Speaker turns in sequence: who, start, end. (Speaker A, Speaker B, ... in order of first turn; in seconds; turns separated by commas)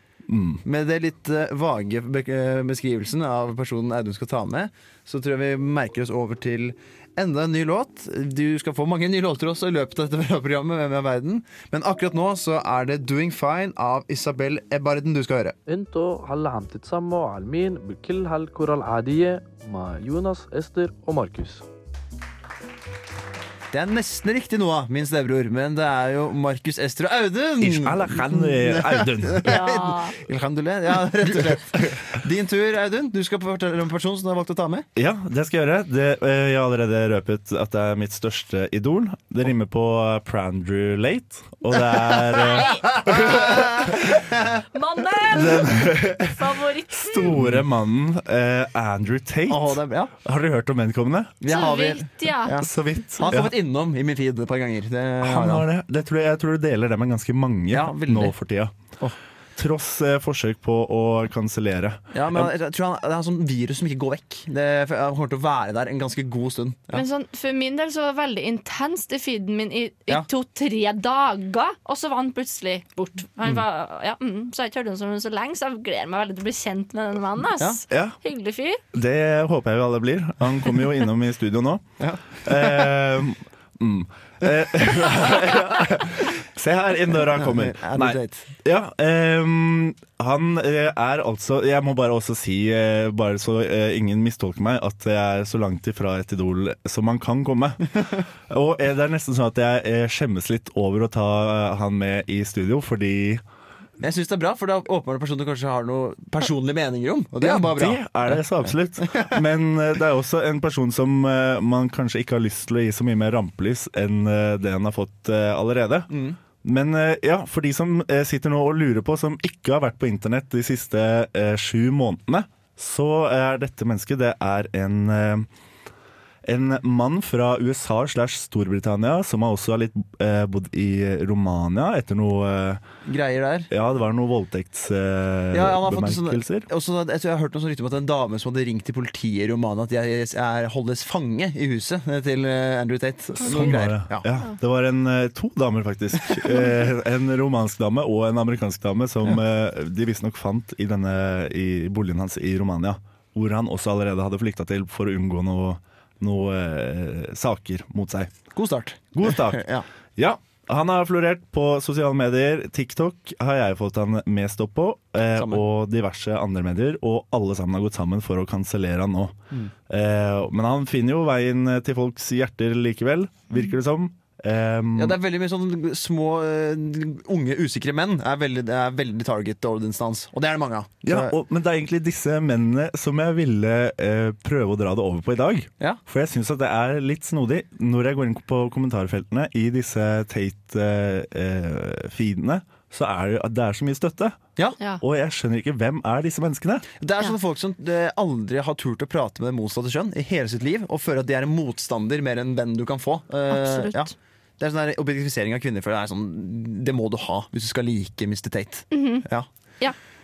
Speaker A: 0.3-0.6, Speaker B: 0.7-15.6, Speaker C: 15.7-21.6, Speaker B: 23.7-34.9, Speaker A: 27.6-29.7, Speaker D: 29.5-30.2, Speaker A: 31.2-32.0, Speaker A: 35.0-44.1, Speaker D: 42.4-43.7, Speaker B: 43.1-44.5, Speaker D: 44.7-47.4, Speaker A: 45.3-51.4, Speaker B: 49.5-50.1, Speaker B: 51.4-55.6, Speaker D: 51.5-52.6, Speaker A: 52.6-53.5, Speaker A: 55.2-58.7, Speaker B: 57.7-58.4, Speaker A: 59.5-62.5, Speaker B: 62.1-67.0, Speaker D: 66.9-78.8, Speaker A: 77.9-78.2, Speaker A: 78.9-81.8, Speaker B: 82.0-82.9, Speaker A: 82.4-103.4, Speaker B: 87.3-88.5, Speaker B: 104.0-108.4, Speaker A: 107.4-116.1, Speaker B: 109.0-109.4, Speaker B: 116.1-116.4, Speaker A: 116.6-125.5, Speaker A: 126.4-132.8, Speaker B: 133.1-133.7, Speaker A: 133.7-136.7, Speaker B: 135.5-144.3, Speaker A: 143.4-158.3, Speaker B: 158.5-159.9, Speaker A: 159.1-159.6, Speaker A: 160.2-169.3, Speaker B: 165.4-165.6, Speaker A: 169.9-175.2, Speaker B: 175.0-181.4, Speaker A: 181.1-194.4, Speaker A: 195.0-196.9, Speaker B: 197.0-209.5, Speaker D: 203.5-204.1, Speaker D: 208.9-209.2